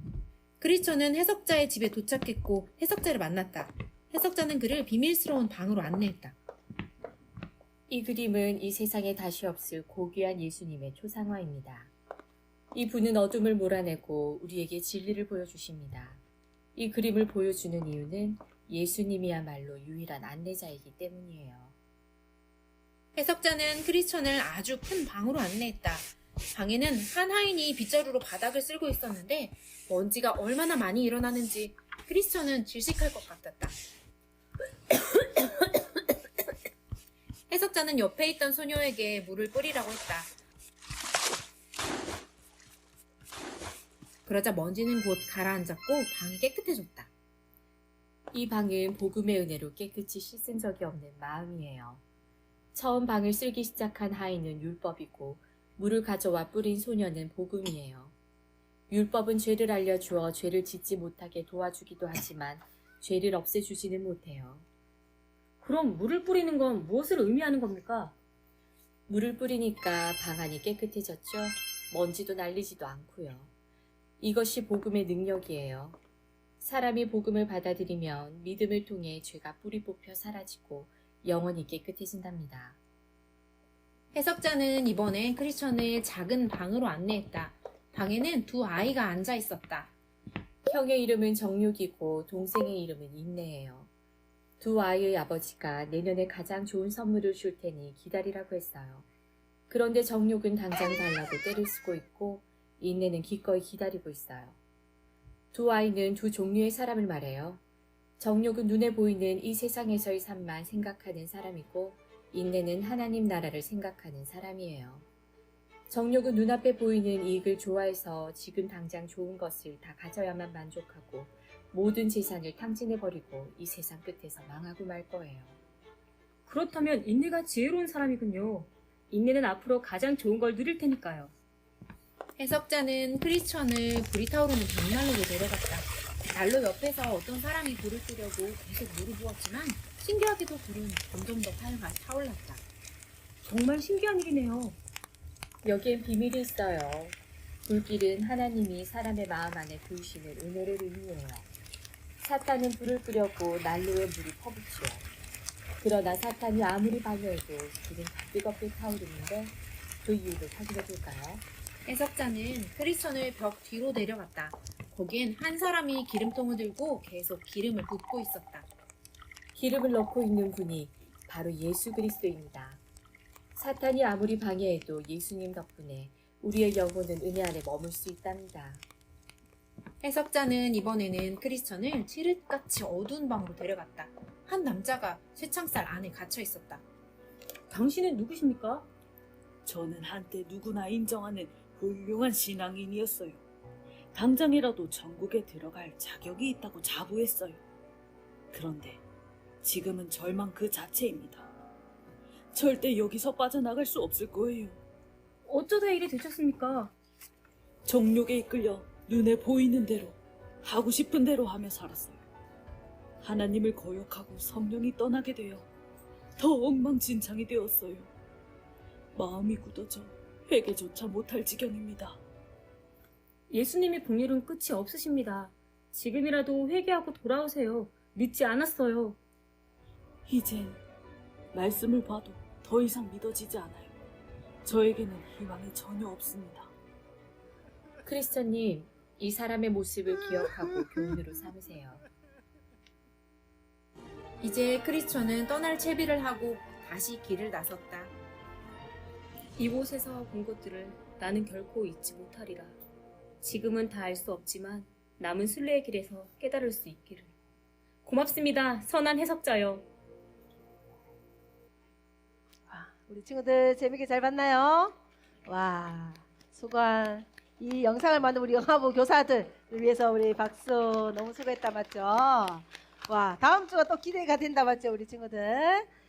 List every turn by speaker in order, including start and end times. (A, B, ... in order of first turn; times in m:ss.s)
0:00.6-0:06.4 A
0:07.9-0:11.9 B
0:12.7-0:16.2 B
0:16.8-0:21.7 B
0:23.2-0:33.8 A
0:37.5-0:40.3 A
0:44.2-0:47.1 A
0:48.3-0:52.0 B
0:52.7-0:58.1 B
0:58.9-1:04.6 B
1:05.6-1:08.2 C
1:09.1-1:13.5 B
1:14.2-1:16.0 B
1:16.6-1:22.8 B
1:24.1-1:29.9 A
1:30.7-1:33.9 B
1:34.6-1:39.1 B
1:39.7-1:44.6 B
1:45.5-1:47.6 B
1:48.2-1:55.0 B
1:55.9-2:05.6 B
2:06.5-2:11.3 C
2:12.4-2:22.6 A
2:23.4-2:24.8 C
2:25.6-2:31.5 B
2:32.2-2:35.1 B
2:35.8-2:41.4 B
2:41.9-2:48.7 A
2:49.5-2:52.8 B
2:53.6-2:58.8 B
3:00.0-3:06.8 A
3:07.7-3:08.9 C
3:09.6-3:13.4 D
3:14.1-3:17.6 D
3:18.5-3:19.0 D
3:19.6-3:21.5 D
3:22.5-3:24.8 D
3:25.4-3:26.9 C
3:27.8-3:32.2 D
3:33.2-3:35.7 D
3:36.4-3:38.1 D
3:39.2-3:42.2 D
3:43.5-3:49.2 C
3:50.3-3:50.8 D
3:51.5-3:53.9 D
3:54.6-3:56.7 D
3:58.0-4:02.0 B
4:04.4-4:08.1 A
4:09.6-4:12.8 C
4:13.4-4:17.3 C
4:18.0-4:19.9 C
4:22.7-4:24.9 E
4:25.5-4:35.9 E